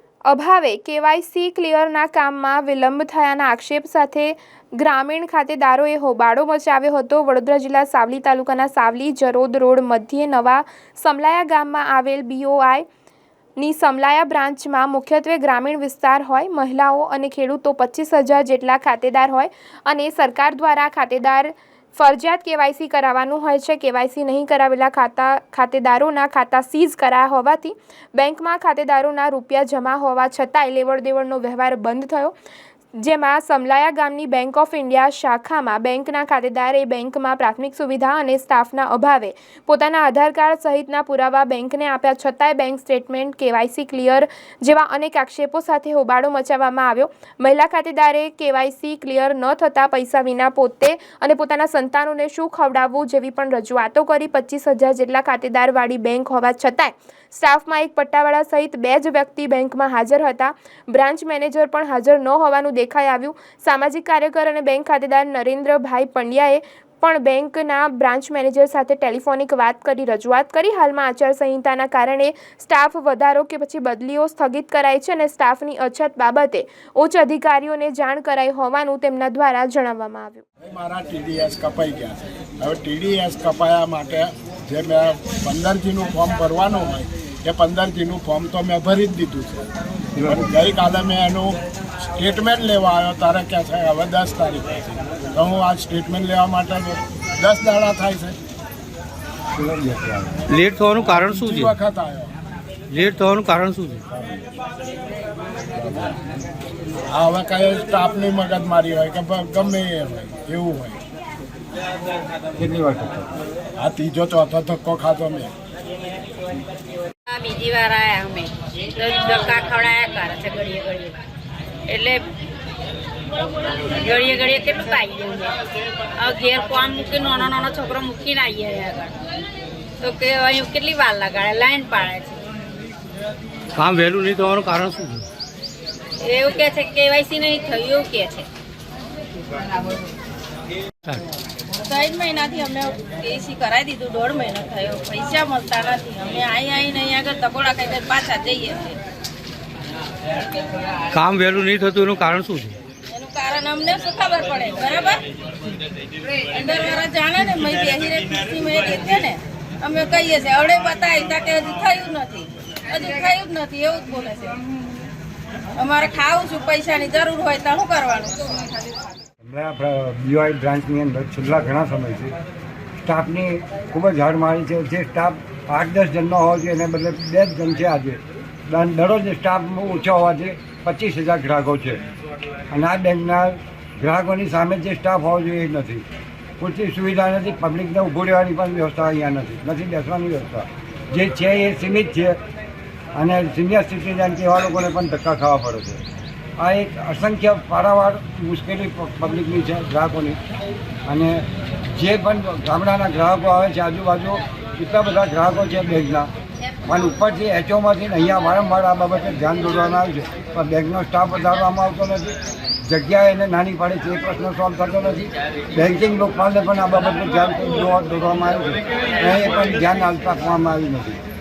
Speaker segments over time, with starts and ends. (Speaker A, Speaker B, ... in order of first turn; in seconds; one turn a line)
Speaker A: 0.3-12.8
Speaker A: 13.6-32.3
Speaker A: 33.0-80.4
Speaker B: 80.6-89.7
Speaker C: 90.2-90.7
Speaker B: 90.2-91.5
Speaker B: 92.1-98.4
Speaker C: 99.5-100.4
Speaker D: 100.5-101.7
Speaker B: 101.1-102.3
Speaker D: 102.9-104.0
Speaker B: 107.1-111.0
Speaker C: 112.5-113.3
Speaker B: 113.8-115.5
Speaker E: 117.3-121.2
Speaker E: 121.9-122.2
Speaker E: 124.0-125.5
Speaker E: 126.2-129.1
Speaker E: 130.0-132.4
Speaker D: 133.8-135.2
Speaker E: 136.2-138.5
Speaker F: 141.8-149.0
Speaker D: 151.1-152.8
Speaker F: 153.1-155.2
Speaker F: 156.5-164.6
Speaker F: 165.8-168.6
Speaker C: 169.4-172.3
Speaker C: 173.0-182.0
Speaker C: 182.7-186.0
Speaker C: 186.6-192.4
Speaker C: 193.1-196.0
Speaker C: 196.6-200.4
Speaker C: 201.1-206.3
Speaker C: 206.8-221.2